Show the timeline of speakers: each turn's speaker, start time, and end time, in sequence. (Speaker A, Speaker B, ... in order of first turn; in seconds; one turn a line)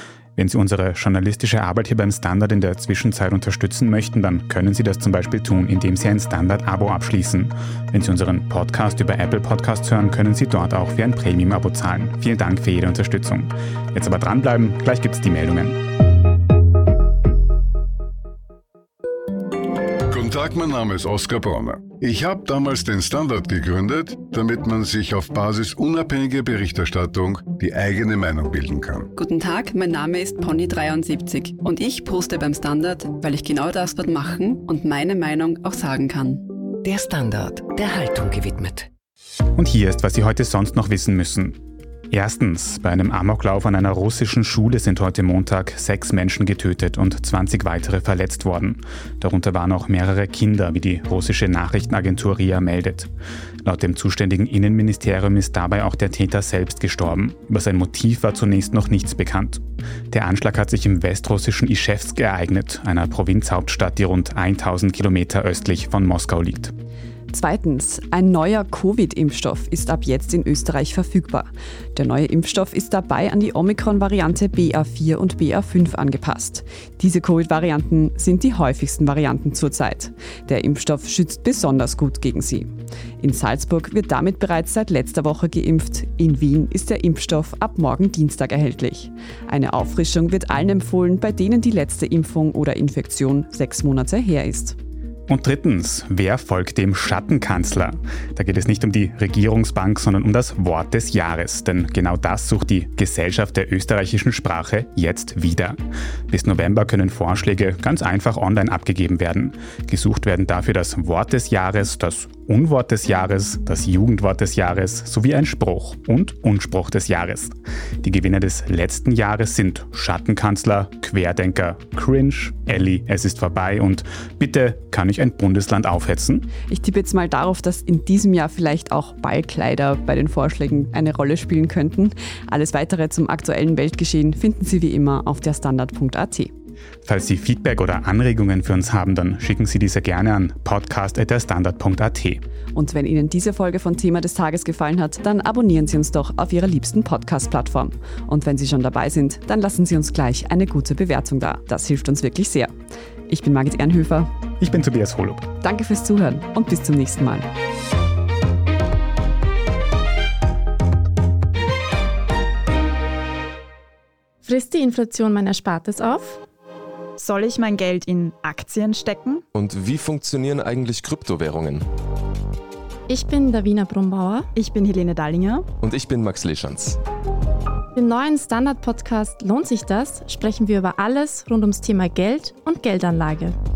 Speaker A: 0.3-15.8
Speaker B: 20.1-29.1
Speaker C: 29.1-36.5
Speaker D: 36.7-38.9
Speaker A: 39.5-53.1
Speaker A: 53.6-66.7
Speaker E: 67.3-94.8
Speaker A: 95.3-105.8
Speaker A: 106.3-126.5
Speaker E: 126.7-136.5
Speaker A: 137.0-142.4
Speaker E: 142.7-152.7
Speaker E: 153.3-154.3
Speaker A: 154.6-155.5
Speaker E: 155.6-157.4
Speaker F: 164.4-166.4
Speaker G: 167.2-169.4
Speaker H: 169.5-171.8
Speaker F: 173.1-174.5
Speaker G: 174.5-175.7
Speaker H: 175.8-177.0
Speaker F: 177.9-183.6